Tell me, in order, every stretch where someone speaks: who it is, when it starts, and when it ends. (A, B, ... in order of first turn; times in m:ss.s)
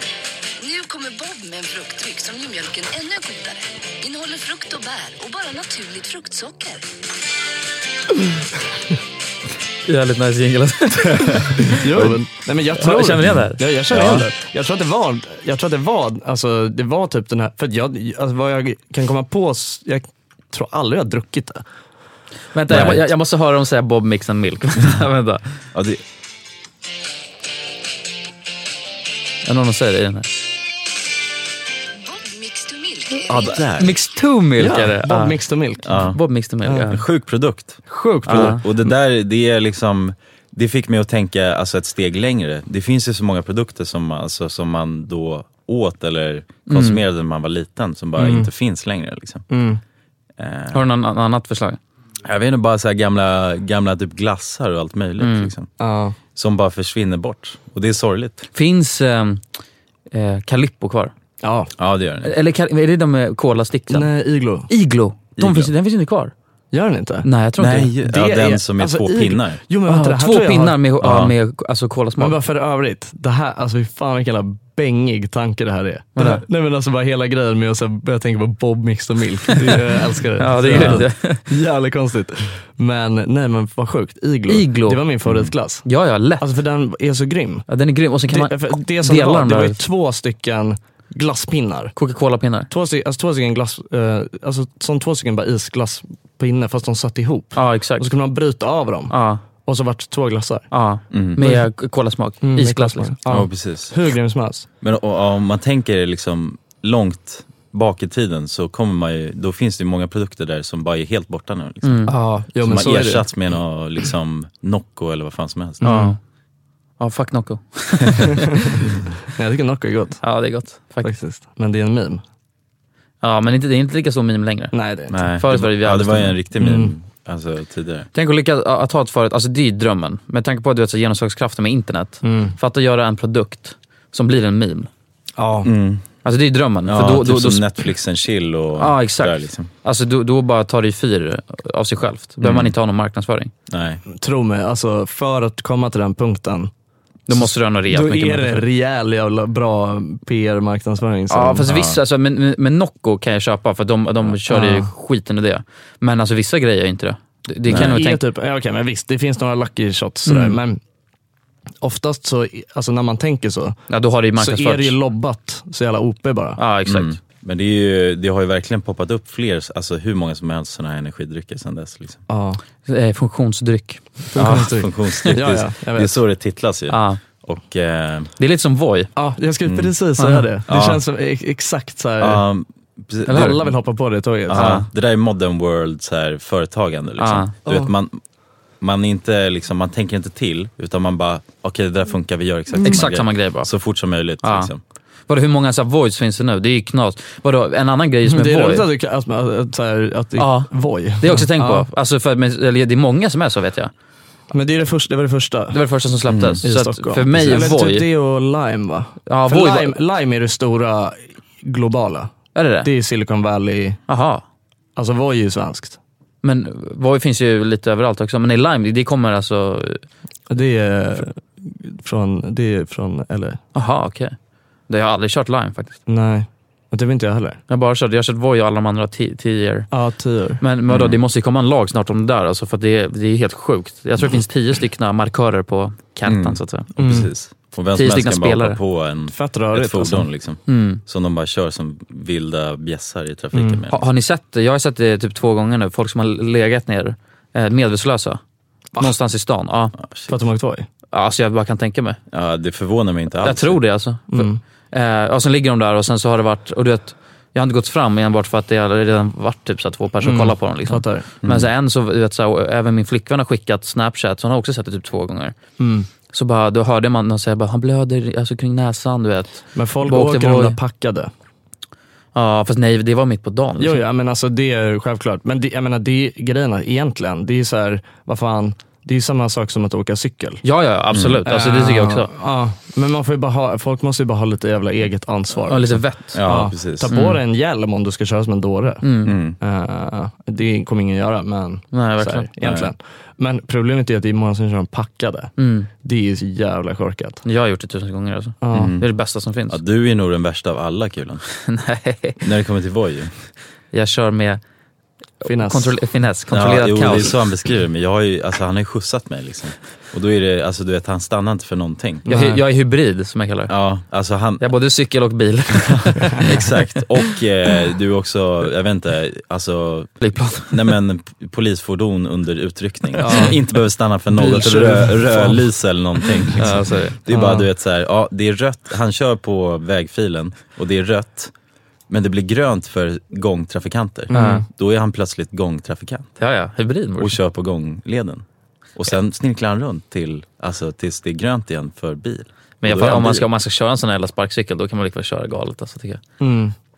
0:00.6-0:06.8 A
0:09.8-0:11.8 B
0:11.8-0:21.6 C
0:12.8-0:13.7 B
0:13.9-0:14.3 D
0:22.5-0:25.4 B
0:22.7-0:23.0 D
0:25.7-0:26.0 D
0:29.4-0:30.3 B
0:32.0-0:33.5 A
0:33.3-0:34.0 D
0:33.8-0:37.0 B
0:34.6-0:35.9 C
0:35.8-0:36.2 D
0:36.8-0:49.4 D
0:37.9-0:38.6 C
0:38.2-0:38.6 B
0:46.7-0:47.0 B
0:48.2-0:48.5 C
0:49.5-0:49.8 C
0:50.4-0:50.8 D
0:50.7-0:51.8 B
0:52.2-0:55.7 D
0:55.2-0:55.5 B
0:55.8-0:56.2 C
0:56.3-0:58.5 D
0:58.5-0:59.4 B
1:00.1-1:01.1 B
1:01.4-1:01.7 C
1:01.8-1:02.3 D
1:02.2-1:04.1 B
1:03.9-1:04.7 C
1:04.7-1:06.3 B
1:05.4-1:05.7 D
1:06.7-1:07.3 C
1:07.2-1:07.9 B
1:07.6-1:09.6 D
1:08.0-1:10.8 C
1:09.9-1:12.4 B
1:11.0-1:11.3 D
1:12.2-1:25.8 C
1:16.2-1:16.4 B
1:20.4-1:21.4 B
1:20.7-1:21.0 D
1:24.5-1:25.0 B
1:25.8-1:26.5 B
1:26.4-1:27.6 C
1:27.7-1:29.8 B
1:28.3-1:31.9 C
1:32.0-1:32.7 B
1:32.7-1:40.7 C
1:37.5-1:38.1 B
1:39.1-1:39.4 B
1:40.7-1:43.1 B
1:41.1-1:41.4 D
1:41.4-1:41.6 C
1:42.4-1:44.7 C
1:43.3-1:44.0 D
1:44.8-1:52.1 D
1:51.8-1:52.1 B
1:52.1-1:53.2 C
1:52.6-1:55.9 D
1:55.8-1:56.1 C
1:55.8-1:56.2 B
1:57.0-1:58.8 B
1:59.3-2:00.2 C
2:00.2-2:01.1 B
2:01.0-2:02.2 C
2:03.2-2:04.7 B
2:04.7-2:05.2 C
2:05.1-2:08.1 D
2:05.4-2:06.4 B
2:06.6-2:06.9 C
2:08.1-2:14.9 B
2:12.2-2:12.6 C
2:15.4-2:15.7 C
2:15.6-2:16.0 D
2:16.2-2:17.6 B
2:16.9-2:19.7 D
2:18.8-2:23.5 B
2:22.4-2:22.7 D
2:23.7-2:24.0 D
2:24.1-2:26.7 C
2:27.3-2:28.6 B
2:27.3-2:31.7 C
2:31.3-2:38.2 B
2:31.6-2:32.0 D
2:34.4-2:34.9 C
2:37.7-2:38.0 D
2:37.7-2:40.8 C
2:40.2-2:40.6 B
2:41.8-2:43.8 C
2:43.9-2:45.0 B
2:44.4-2:46.6 C
2:46.6-2:47.2 B
2:46.8-2:52.2 D
2:52.3-2:52.6 C
2:52.8-2:54.6 B
2:54.3-2:56.1 C
2:54.4-2:58.3 D
2:56.9-2:57.2 B
2:58.4-2:59.1 B
2:59.2-3:02.4 C
2:59.6-2:59.9 D
3:00.2-3:00.5 B
3:00.7-3:01.0 D
3:02.2-3:03.7 D
3:03.3-3:04.8 C
3:04.5-3:08.2 D
3:04.5-3:04.9 B
3:07.2-3:07.5 B
3:07.6-3:07.9 C
3:08.8-3:14.8 D
3:12.8-3:13.7 B
3:14.4-3:14.7 B
3:15.3-3:18.8 B
3:18.2-3:21.9 C
3:20.4-3:23.9 B
3:24.5-3:25.8 C
3:25.7-3:28.1 B
3:26.3-3:26.6 D
3:26.6-3:34.0 C
3:29.3-3:29.9 B
3:32.5-3:32.9 B
3:34.1-3:34.4 B
3:35.0-3:36.0 C
3:36.4-3:40.0 B
3:40.5-3:43.6 C
3:43.7-3:44.4 B
3:44.9-3:46.0 B
3:46.1-3:47.6 C
3:47.7-3:49.9 B
3:49.9-3:50.6 C
3:50.6-3:56.9 B
3:50.9-3:51.2 D
3:56.2-4:04.0 D
3:57.0-3:57.3 C
3:57.9-3:58.8 B
3:59.3-4:00.3 C
4:00.7-4:01.0 B
4:03.5-4:03.8 C
4:03.9-4:08.4 B
4:09.0-4:09.9 B
4:10.0-4:10.3 D
4:10.3-4:10.8 C
4:11.1-4:12.2 B
4:12.3-4:13.8 D
4:13.4-4:25.5 B
4:14.3-4:14.6 C
4:20.2-4:21.3 C
4:21.4-4:21.7 D
4:25.8-4:26.1 C
4:26.3-4:30.8 B
4:29.7-4:31.3 C
4:32.3-4:34.0 B
4:33.8-4:40.6 C
4:40.6-4:42.3 B
4:41.1-4:41.4 D
4:41.4-4:49.0 C
4:45.6-4:46.4 B
4:46.3-4:47.1 D
4:47.1-4:47.4 B
4:49.0-4:49.3 B
4:49.2-4:49.6 D
4:49.6-4:57.4 C
4:51.9-4:52.5 B
4:52.6-4:52.9 D
4:55.6-4:55.9 B
4:57.4-4:59.8 B
4:58.6-4:59.0 C
4:58.7-4:59.1 D
4:59.7-5:01.4 D
5:01.6-5:02.4 B
5:02.4-5:03.3 D
5:03.9-5:04.6 B
5:05.4-5:07.3 B
5:05.4-5:05.9 C
5:06.5-5:12.2 D
5:12.3-5:13.7 B
5:12.3-5:12.6 C
5:13.7-5:14.7 D
5:14.6-5:16.6 B
5:16.3-5:31.5 D
5:20.2-5:20.9 B
5:23.1-5:23.6 C
5:24.3-5:25.6 C
5:26.6-5:27.2 B
5:27.3-5:27.7 C
5:32.1-5:36.3 D
5:34.3-5:34.6 C
5:34.3-5:34.6 B
5:36.4-5:37.4 B
5:37.2-5:38.4 D
5:39.0-5:43.5 D
5:42.8-5:46.2 B
5:46.4-5:46.7 C